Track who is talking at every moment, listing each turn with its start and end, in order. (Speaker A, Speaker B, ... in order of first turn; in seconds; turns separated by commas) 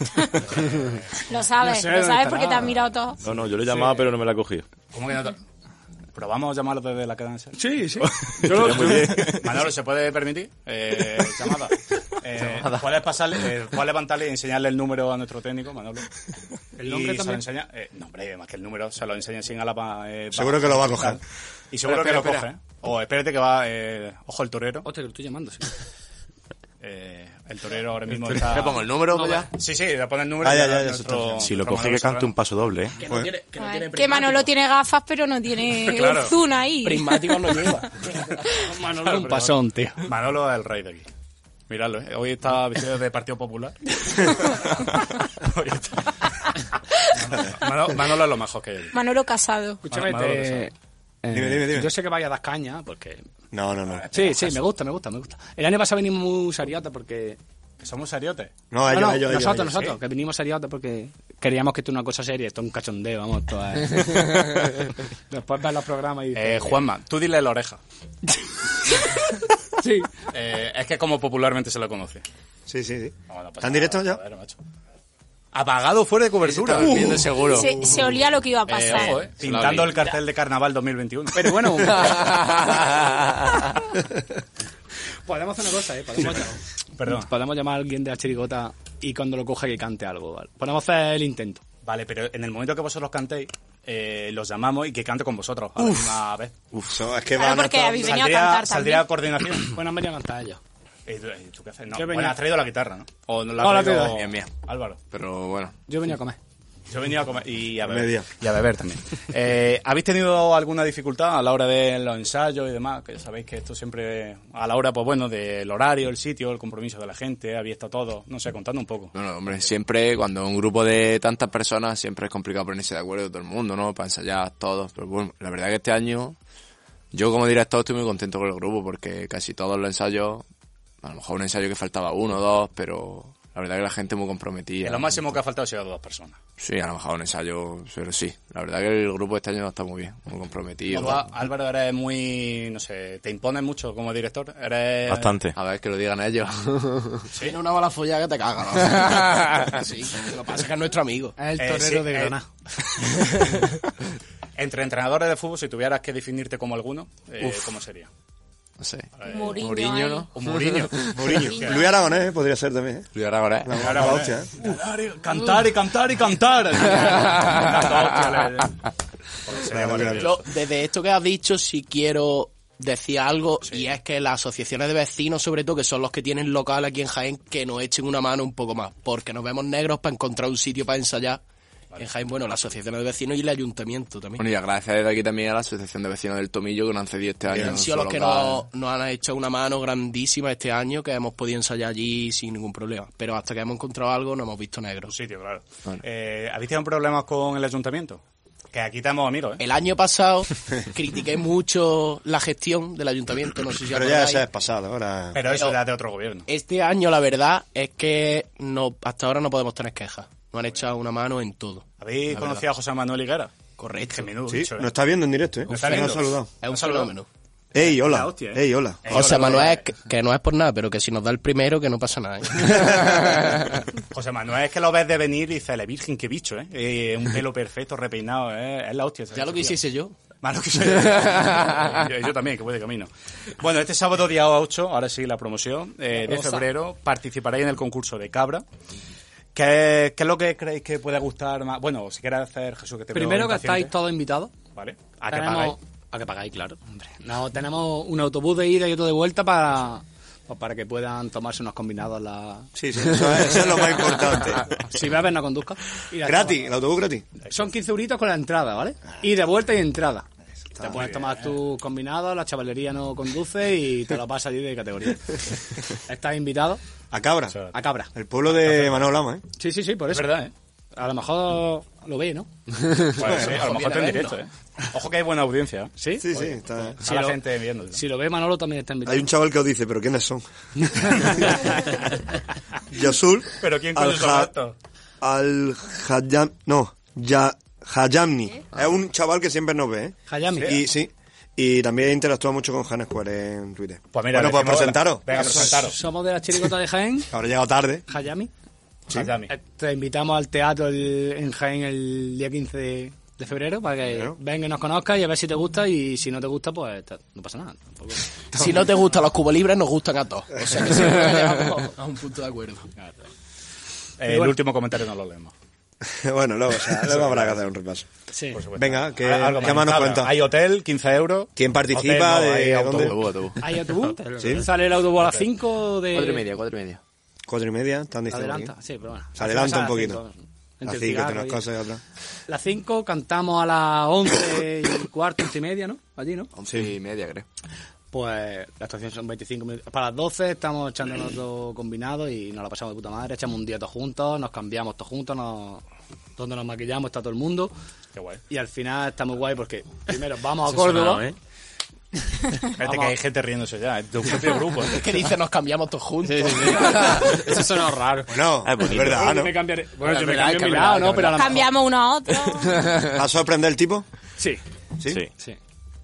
Speaker A: 0.5-1.0, Speaker B: 1.3-3.2, Speaker C: 1.6-2.8, Speaker D: 3.2-4.7, Speaker A: 3.3-4.1, Speaker A: 4.9-5.4, Speaker A: 6.1-16.1, Speaker C: 7.6-9.4, Speaker D: 8.4-9.6, Speaker C: 16.8-17.4, Speaker A: 16.8-24.9, Speaker E: 20.3-21.2, Speaker F: 21.9-22.4, Speaker C: 24.8-25.7, Speaker A: 26.8-28.9, Speaker F: 28.2-29.5, Speaker C: 29.1-29.5, Speaker A: 29.5-32.3, Speaker E: 30.4-31.5, Speaker D: 31.4-33.0, Speaker G: 33.0-34.5, Speaker E: 33.0-33.3, Speaker B: 33.6-37.2, Speaker A: 35.9-36.4, Speaker G: 36.8-38.1, Speaker A: 38.3-41.1, Speaker C: 38.7-40.1, Speaker A: 41.7-46.1, Speaker A: 47.1-49.0, Speaker B: 48.9-49.8, Speaker C: 49.8-53.2, Speaker A: 49.9-50.7, Speaker E: 51.3-51.9, Speaker E: 53.5-54.1, Speaker A: 53.9-54.6, Speaker C: 54.1-57.4, Speaker A: 57.8-58.5, Speaker E: 58.7-59.7, Speaker C: 58.9-66.8, Speaker A: 59.5-60.0, Speaker A: 66.3-67.8, Speaker C: 69.8-70.1, Speaker A: 70.3-72.2, Speaker E: 72.7-74.2, Speaker A: 73.3-74.6, Speaker A: 75.5-77.3, Speaker F: 76.4-80.1, Speaker B: 76.8-79.2, Speaker A: 78.8-81.9, Speaker C: 81.3-82.5, Speaker F: 81.9-83.1, Speaker C: 85.2-91.6, Speaker A: 87.0-87.3, Speaker A: 91.8-96.5, Speaker F: 95.8-96.0, Speaker E: 96.9-98.2, Speaker B: 97.3-99.1, Speaker A: 98.0-99.8, Speaker C: 99.7-100.6, Speaker A: 101.0-105.0, Speaker C: 101.9-102.4, Speaker C: 103.6-104.2, Speaker F: 104.1-104.5, Speaker F: 105.1-105.8, Speaker C: 105.9-106.4, Speaker A: 106.9-119.1, Speaker E: 107.8-108.3, Speaker F: 119.1-126.4, Speaker F: 127.1-130.4, Speaker F: 131.0-135.4, Speaker A: 134.8-136.4, Speaker F: 136.6-141.3, Speaker A: 140.9-145.3, Speaker D: 145.1-145.5, Speaker F: 145.5-147.3, Speaker G: 147.4-151.4, Speaker C: 151.4-152.5, Speaker A: 151.6-152.3, Speaker A: 154.6-158.1, Speaker F: 158.8-161.1, Speaker A: 159.2-159.7, Speaker B: 159.3-160.3, Speaker A: 160.3-161.8, Speaker E: 161.1-163.1, Speaker B: 161.3-161.8, Speaker F: 163.1-163.9, Speaker E: 163.6-164.5, Speaker A: 163.8-168.8, Speaker A: 169.4-170.5, Speaker E: 169.6-170.4, Speaker G: 170.2-181.4, Speaker A: 173.6-173.9, Speaker G: 182.0-184.4, Speaker F: 184.4-188.7, Speaker G: 187.5-195.1, Speaker A: 195.1-198.2, Speaker A: 198.7-199.6, Speaker G: 199.6-204.4, Speaker E: 203.9-205.4, Speaker A: 205.3-206.4, Speaker G: 205.5-205.8, Speaker G: 206.5-211.8, Speaker A: 212.0-213.5, Speaker G: 213.8-214.3, Speaker A: 214.1-214.9, Speaker E: 214.5-216.5, Speaker A: 215.7-217.1, Speaker G: 215.7-217.3, Speaker E: 217.7-219.5, Speaker A: 217.8-219.9, Speaker G: 219.1-223.1, Speaker E: 222.7-223.4, Speaker A: 224.1-229.8, Speaker G: 229.3-230.1, Speaker A: 230.4-238.6, Speaker C: 236.1-236.7, Speaker A: 239.5-243.9, Speaker C: 243.1-244.5, Speaker A: 244.7-245.8, Speaker C: 245.3-252.7, Speaker E: 252.8-254.7, Speaker C: 254.9-256.7, Speaker E: 256.2-257.2, Speaker C: 257.5-260.3, Speaker E: 260.8-261.1, Speaker C: 260.8-265.4, Speaker A: 260.9-261.5, Speaker C: 266.1-266.8, Speaker E: 267.1-267.6, Speaker C: 267.7-268.1, Speaker E: 268.1-269.4, Speaker C: 269.6-270.4, Speaker A: 270.1-270.5, Speaker C: 270.9-272.5, Speaker A: 273.1-278.0, Speaker G: 273.2-274.3, Speaker C: 276.0-276.4, Speaker E: 276.2-277.0, Speaker C: 277.0-277.4, Speaker C: 277.9-279.3, Speaker E: 279.0-281.5, Speaker C: 280.9-281.7, Speaker E: 282.9-284.5, Speaker A: 283.6-284.7, Speaker E: 285.2-295.8, Speaker C: 290.3-290.8, Speaker A: 294.1-296.0, Speaker C: 295.3-297.3, Speaker E: 297.3-298.0, Speaker C: 298.1-298.5, Speaker A: 299.1-299.5, Speaker C: 299.5-308.7, Speaker E: 304.1-304.4, Speaker G: 308.5-312.9, Speaker A: 314.2-315.5, Speaker C: 314.2-314.5, Speaker E: 316.0-318.1, Speaker A: 316.9-317.6, Speaker C: 318.3-318.6, Speaker A: 318.5-323.1, Speaker E: 318.7-320.4, Speaker E: 321.6-323.1, Speaker F: 322.9-323.6, Speaker C: 323.6-326.4, Speaker E: 324.4-324.7, Speaker F: 326.1-327.0, Speaker E: 327.5-328.7, Speaker C: 328.3-331.6, Speaker E: 329.4-330.2, Speaker E: 330.8-332.0, Speaker C: 332.5-336.5, Speaker F: 336.6-337.4, Speaker C: 338.1-345.8, Speaker C: 346.4-347.7, Speaker A: 348.1-348.4, Speaker C: 348.5-351.3, Speaker A: 352.8-355.0, Speaker C: 352.8-353.1, Speaker G: 354.8-357.3, Speaker C: 357.1-358.3, Speaker E: 358.3-359.6, Speaker D: 358.6-359.4, Speaker C: 359.1-361.7, Speaker F: 360.0-361.4, Speaker B: 361.3-362.8, Speaker E: 363.1-364.1